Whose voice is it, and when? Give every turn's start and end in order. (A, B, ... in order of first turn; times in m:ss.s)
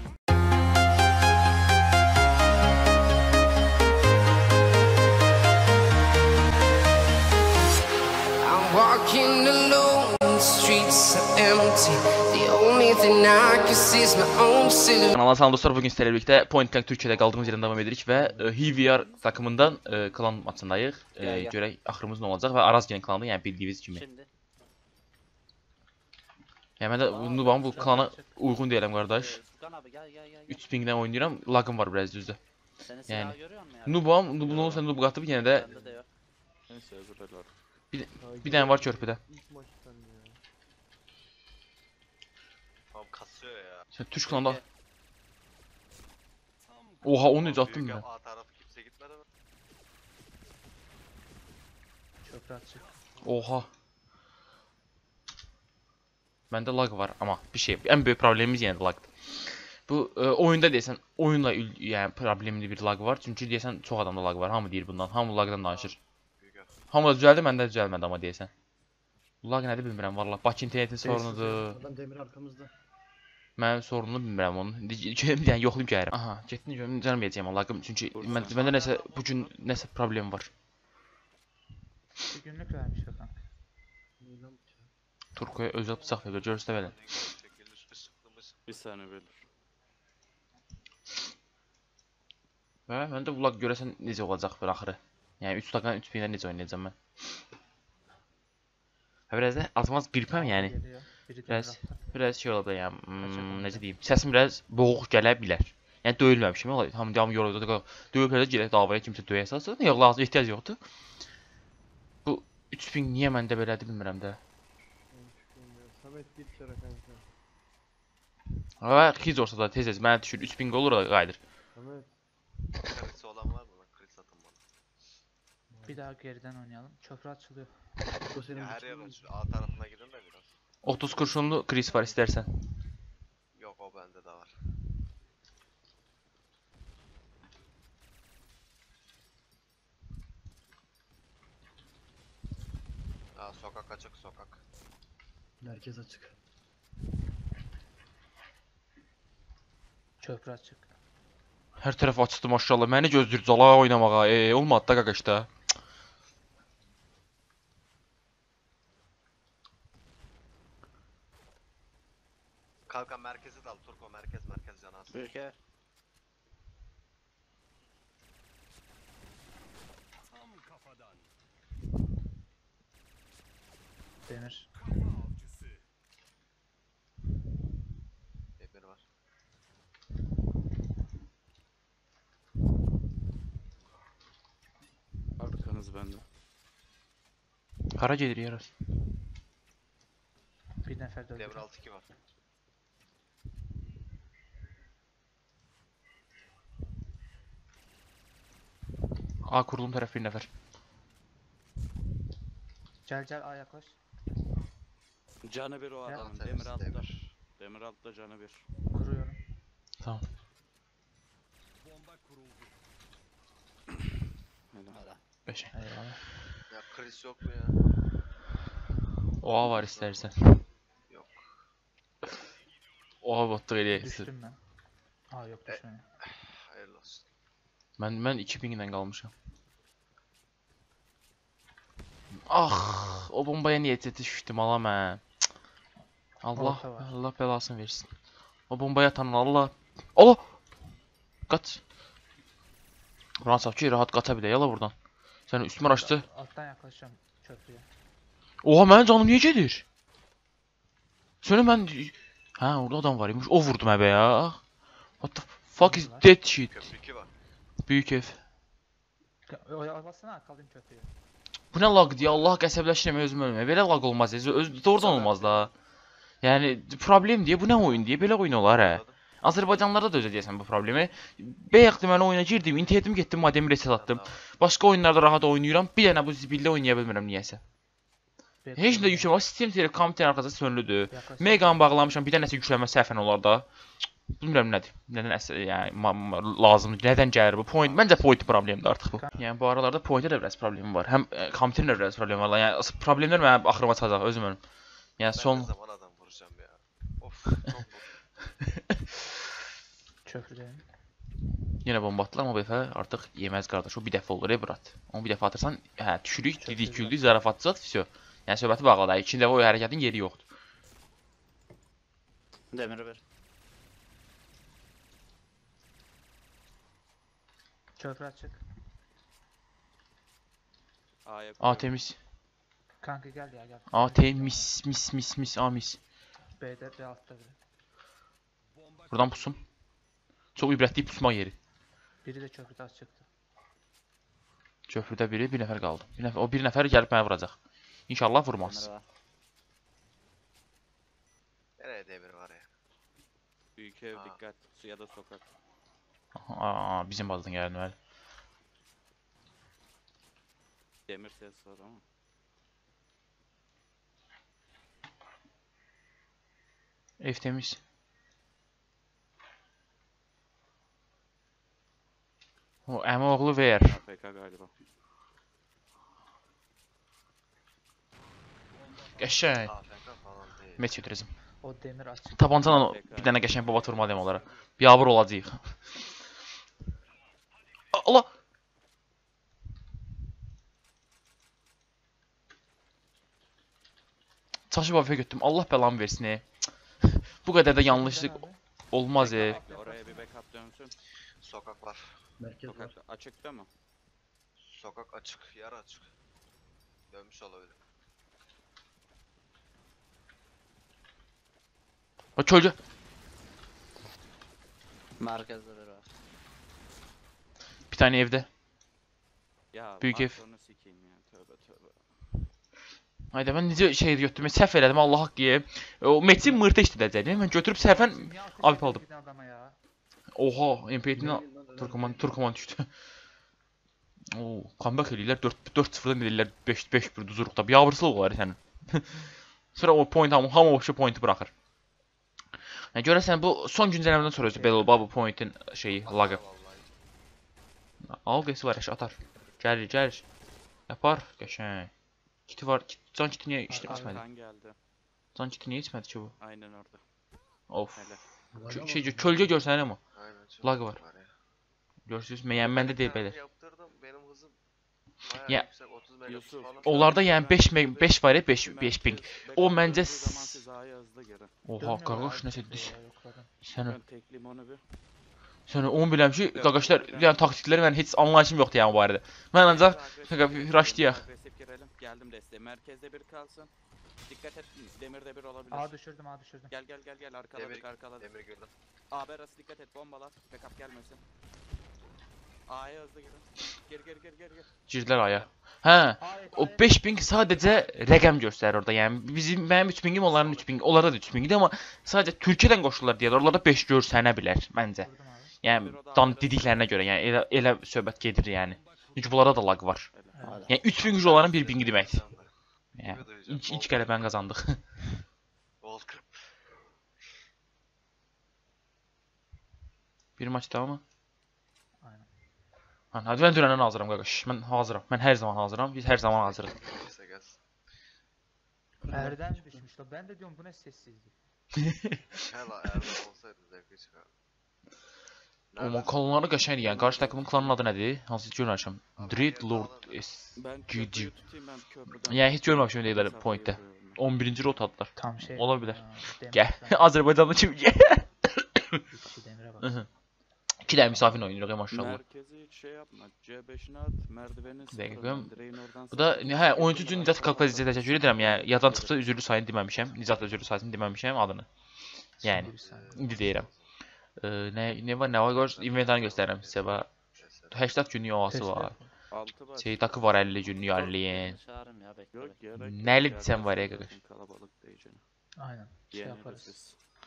0:08.4-0:15.0 A
0:15.1-0:24.0 B
0:18.1-0:18.9 C
0:21.2-0:21.6 D
0:23.9-0:24.3 D
0:26.8-0:29.4 B
0:27.0-0:27.9 D
0:27.6-0:28.3 E
0:29.0-0:30.7 D
0:30.5-0:32.4 B
0:32.8-0:34.6 D
0:33.1-0:35.7 B
0:34.4-0:34.8 F
0:35.3-0:36.0 D
0:35.6-0:36.0 C
0:36.7-0:37.5 F
0:37.9-0:39.2 B
0:38.2-0:40.4 C
0:42.9-0:43.9 G
0:43.9-0:44.6 B
0:44.2-0:44.6 D
0:47.0-0:48.0 B
0:47.4-0:49.2 G
0:52.2-0:52.9 E
0:53.2-0:53.7 B
0:56.5-1:06.0 B
1:05.7-1:06.7 G
1:06.9-1:08.5 B
1:09.4-1:11.8 B
1:11.0-1:12.7 C
1:13.6-1:20.5 B
1:18.1-1:19.5 F
1:22.2-1:23.4 E
1:24.2-1:24.9 C
1:25.3-1:27.0 B
1:26.7-1:28.6 G
1:28.7-1:29.4 F
1:32.9-1:36.9 B
1:39.3-1:40.8 B
1:40.3-1:42.1 E
1:41.5-1:50.8 B
1:43.2-1:43.8 E
1:52.2-1:54.4 B
1:55.1-1:57.2 C
1:58.8-2:01.4 B
2:01.7-2:02.1 C
2:02.8-2:04.6 G
2:05.7-2:06.1 C
2:05.8-2:07.8 E
2:08.3-2:09.2 C
2:08.5-2:10.5 G
2:10.8-2:12.8 B
2:13.5-2:14.6 G
2:23.3-2:24.6 G
2:25.6-2:26.3 C
2:30.2-2:30.9 E
2:31.8-2:35.5 B
2:42.9-2:45.3 G
2:45.1-2:45.6 D
2:54.2-2:54.7 E
2:58.6-2:59.0 G
3:05.4-3:06.2 F
3:07.9-3:08.7 B
3:10.8-3:11.6 E
3:11.4-3:12.1 G
3:19.4-3:20.5 B
3:23.0-3:24.0 E
3:25.4-3:28.6 F
3:26.1-3:27.2 G
3:28.9-3:29.4 E
3:30.0-3:30.2 B
3:34.7-3:35.0 F
3:34.9-3:35.2 D
3:35.5-3:35.7 B
3:35.7-3:36.2 E
3:36.7-3:37.8 G
3:39.4-3:40.6 B
3:39.6-3:40.3 G
3:41.1-3:41.4 G
3:43.2-3:44.3 B
3:43.9-3:44.6 E
3:45.3-3:46.0 E
3:45.7-3:47.2 G
3:48.0-3:49.3 B
3:52.5-3:55.2 B
3:56.4-3:58.1 B
3:56.5-3:57.1 E
3:58.7-4:00.4 B
4:01.5-4:01.8 B
4:03.4-4:04.9 B
4:05.5-4:06.2 B
4:05.8-4:07.9 E
4:08.6-4:09.8 B
4:11.4-4:14.6 B
4:15.2-4:16.9 B
4:15.8-4:16.2 E
4:16.7-4:17.3 G
4:17.8-4:18.4 B
4:19.5-4:21.1 E
4:21.7-4:25.7 B
4:22.2-4:22.6 G
4:25.0-4:25.5 F
4:26.4-4:37.6 B
4:28.7-4:29.2 G
4:34.0-4:34.4 G
4:38.6-4:39.3 E
4:38.8-4:43.6 B
4:41.1-4:41.8 E
4:44.3-4:54.6 B
4:47.8-4:48.3 G
4:55.2-4:55.7 B
4:55.2-4:58.1 G
5:00.2-5:00.8 E
5:01.8-5:10.4 B
5:06.6-5:07.2 E
5:12.7-5:13.2 D
5:18.0-5:18.6 E
5:21.2-5:22.0 F
5:21.6-5:22.2 B
5:23.0-5:24.7 E
5:23.9-5:26.0 B
5:26.6-5:27.6 E
5:29.1-5:29.6 B
5:30.6-5:31.6 B
5:32.2-5:33.2 E
5:34.9-5:37.5 B
5:38.1-5:38.9 B
5:38.5-5:39.0 D
5:41.8-5:42.6 G
5:43.8-5:45.4 F
5:44.1-5:44.4 G
5:46.3-5:47.9 B
5:51.1-5:52.0 F
5:57.2-5:57.8 B
6:02.9-6:04.0 B
6:03.8-6:04.7 F
6:09.2-6:09.7 B
6:09.6-6:10.8 G
6:10.8-6:11.3 B
6:11.6-6:12.8 E
6:12.3-6:15.8 B
6:12.7-6:13.4 F
6:17.9-6:18.3 B
6:24.7-6:26.4 B
6:27.0-6:29.6 B
6:27.8-6:28.6 E
6:29.2-6:30.2 E
6:29.2-6:30.9 F
6:31.4-6:32.1 G
6:32.4-6:32.9 C
6:32.6-6:33.7 F
6:34.6-6:36.1 G
6:37.1-6:37.8 G
6:42.4-6:42.8 B
6:45.2-6:46.0 D
6:47.9-6:48.5 B
6:49.7-6:52.0 F
6:50.0-6:50.4 B
6:53.3-6:59.0 B
6:57.7-6:59.8 E
7:00.3-7:02.9 B
7:01.1-7:02.3 C
7:04.3-7:11.5 B
7:12.9-7:16.4 B
7:14.2-7:15.1 E
7:15.9-7:16.9 G
7:18.0-7:20.2 B
7:20.9-7:21.9 B
7:22.5-7:24.2 B
7:23.7-7:24.2 E
7:23.8-7:24.8 F
7:25.3-7:26.3 B
7:26.4-7:27.0 F
7:27.7-7:28.0 B
7:27.9-7:28.2 F
7:28.5-7:29.3 C
7:28.7-7:30.0 B
7:30.1-7:31.3 G
7:30.6-7:31.0 B
7:32.0-7:33.4 B
7:32.5-7:34.6 G
7:35.2-7:37.2 G
7:36.2-7:41.5 F
7:36.8-7:40.6 B
7:41.6-7:43.0 B
7:41.8-7:43.5 E
7:43.6-7:44.0 B
7:43.9-7:44.8 F
7:45.7-7:51.2 B
7:46.5-7:47.4 F
7:49.6-7:53.7 F
7:54.3-7:55.9 F
7:55.7-7:56.7 E
7:56.7-7:58.3 F
7:57.5-7:58.7 G
7:59.1-8:01.2 F
8:02.7-8:04.7 F
8:04.9-8:15.1 B
8:06.2-8:07.0 E
8:07.4-8:08.0 F
8:10.2-8:10.8 F
8:15.0-8:15.5 E
8:15.6-8:20.1 B
8:15.6-8:16.8 F
8:20.1-8:20.4 F
8:20.3-8:20.7 E
8:20.4-8:20.7 D
8:20.7-8:22.2 B
8:20.7-8:24.3 G
8:23.0-8:24.8 B
8:25.8-8:26.4 G
8:30.4-8:31.0 B
8:32.0-8:32.3 E
8:33.1-8:36.8 B
8:36.0-8:37.6 G
8:39.0-8:39.8 C
8:39.1-8:41.3 E
8:41.8-8:42.2 B
8:42.3-8:44.3 G
8:45.7-8:46.1 G
8:45.8-8:51.3 B
8:49.2-8:50.2 G
8:50.6-8:54.2 F
8:52.1-8:59.0 B
8:55.1-8:57.3 E
8:59.1-9:00.0 E
8:59.8-9:00.1 B
9:00.8-9:02.2 B
9:01.9-9:08.5 F
9:04.9-9:05.5 B
9:06.1-9:11.7 B
9:08.3-9:09.2 D
9:12.4-9:13.7 B
9:12.4-9:13.4 E
9:12.6-9:13.9 G
9:14.4-9:17.1 B
9:15.5-9:17.8 G
9:17.7-9:19.0 B
9:18.5-9:19.1 E
9:19.3-9:20.2 F
9:19.7-9:21.6 B
9:20.9-9:22.7 D
9:22.3-9:25.2 F
9:22.7-9:24.1 B
9:25.6-9:26.7 E
9:26.1-9:27.0 F